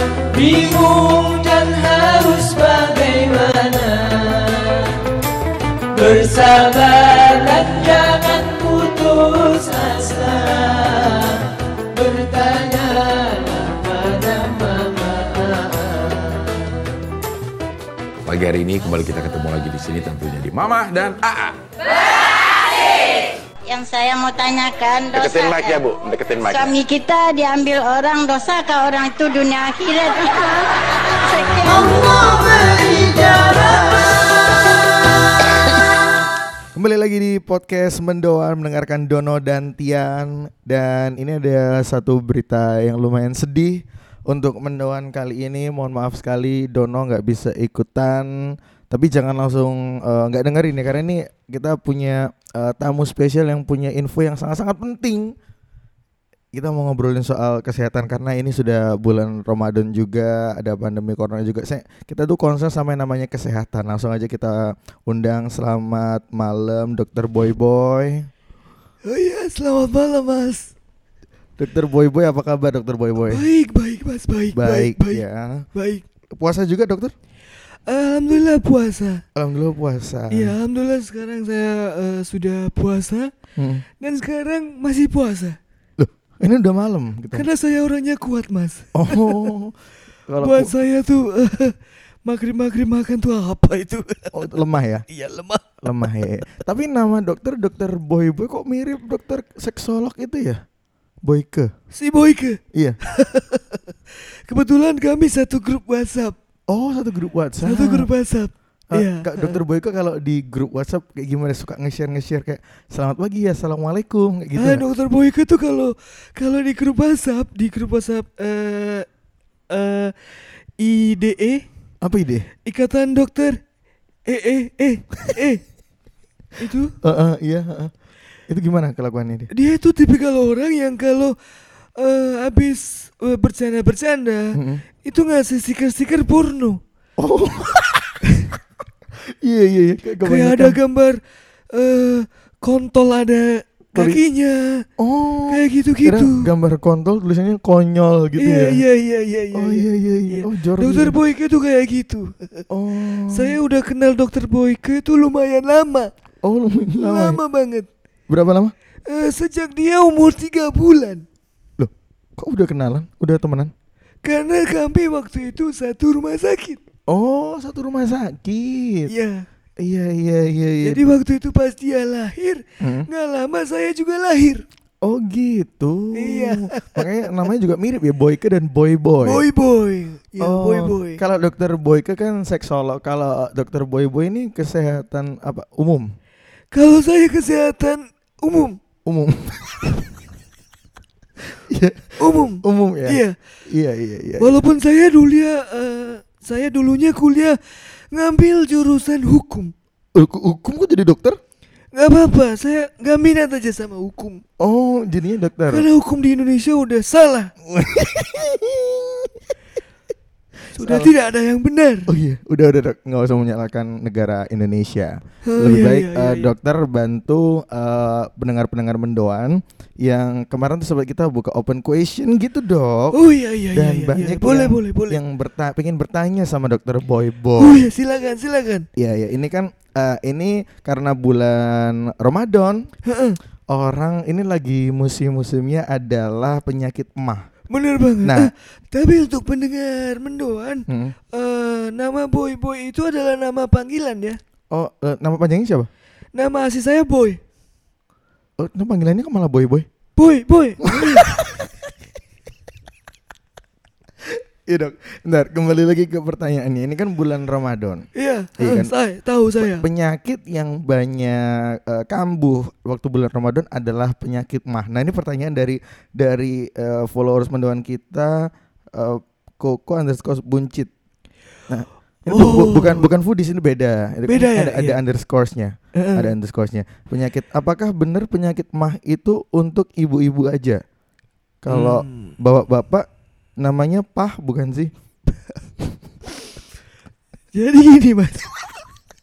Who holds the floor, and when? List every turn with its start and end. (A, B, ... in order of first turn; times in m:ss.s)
0:00.3-0:04.9 A
0:05.9-0:16.3 A
0:18.2-0:21.6 B
0:23.6-0:32.3 C
0:25.2-0:26.6 B
0:31.7-0:34.6 A
0:36.7-0:55.3 D
0:56.5-1:08.3 D
1:09.0-1:10.7 E
1:11.6-1:13.4 D
1:13.2-1:16.0 E
1:14.5-1:15.6 D
1:16.3-1:17.1 D
1:17.9-1:19.2 E
1:19.3-1:20.6 D
1:20.3-1:23.3 E
1:23.6-1:23.8 D
1:24.0-1:25.6 E
1:26.0-1:27.5 D
1:27.3-1:29.5 E
1:28.9-1:29.7 D
1:30.3-1:30.7 D
1:30.4-1:34.6 E
1:34.3-1:35.0 D
1:35.1-1:35.8 E
1:35.8-1:40.6 D
1:41.2-1:41.7 D
1:41.9-1:46.4 E
1:46.7-1:48.1 D
1:47.6-1:49.6 E
1:48.9-1:54.8 D
1:54.6-1:59.1 E
1:59.7-2:01.6 E
2:02.0-2:02.5 D
2:02.6-2:03.6 E
2:04.3-2:05.6 E
2:06.6-2:06.9 E
2:07.0-2:07.9 D
2:08.5-2:09.5 D
2:09.5-2:11.3 E
2:12.0-2:16.8 E
2:14.5-2:14.8 D
2:17.2-2:18.2 D
2:19.2-2:20.8 D
2:20.2-2:21.2 E
2:21.7-2:24.9 E
2:23.9-2:24.2 D
2:25.0-2:28.8 D
2:25.5-2:26.5 E
2:28.4-2:32.6 E
2:29.5-2:31.2 D
2:32.7-2:33.6 D
2:33.3-2:36.1 E
2:36.4-2:37.4 D
2:37.0-2:37.9 E
2:38.3-2:38.7 D
2:39.1-2:41.2 E
2:41.8-2:43.7 D
2:44.2-2:46.8 E
2:47.1-2:49.1 D
2:49.1-2:49.5 E
2:49.8-2:51.0 D
2:50.8-2:54.6 E
2:52.8-2:53.1 D
2:55.0-2:59.4 D
2:56.1-2:57.3 E
2:59.2-3:01.2 E
3:00.4-3:06.0 D
3:06.7-3:08.8 E
3:09.0-3:10.0 D
3:11.5-3:14.6 D
3:12.2-3:13.4 E
3:14.4-3:19.7 E
3:20.1-3:21.4 D
3:21.9-3:24.4 E
3:24.6-3:25.8 D
3:25.7-3:27.5 E
3:27.7-3:29.3 D
3:30.7-3:32.1 E
3:30.8-3:31.1 D
3:32.1-3:43.2 D
3:35.4-3:36.5 E
3:43.1-3:45.2 E
3:43.7-3:47.9 D
3:47.6-3:48.8 E
3:49.0-3:52.9 D
3:53.0-3:53.4 E
3:53.7-3:57.4 D
3:57.7-4:04.4 E
3:58.2-3:58.5 D
4:00.9-4:01.1 D
4:04.7-4:05.9 D
4:06.3-4:07.4 E
4:08.6-4:09.9 D
4:10.2-4:11.4 E
4:10.8-4:11.7 D
4:14.6-4:18.0 D
4:18.1-4:19.8 E
4:18.6-4:18.9 D
4:19.6-4:30.9 D
4:31.7-4:40.8 D
4:32.3-4:33.1 E
4:34.2-4:35.0 E
4:35.9-4:36.3 E
4:41.6-4:43.1 D
4:41.7-4:42.3 E
4:43.6-4:44.9 D
4:47.5-4:48.5 E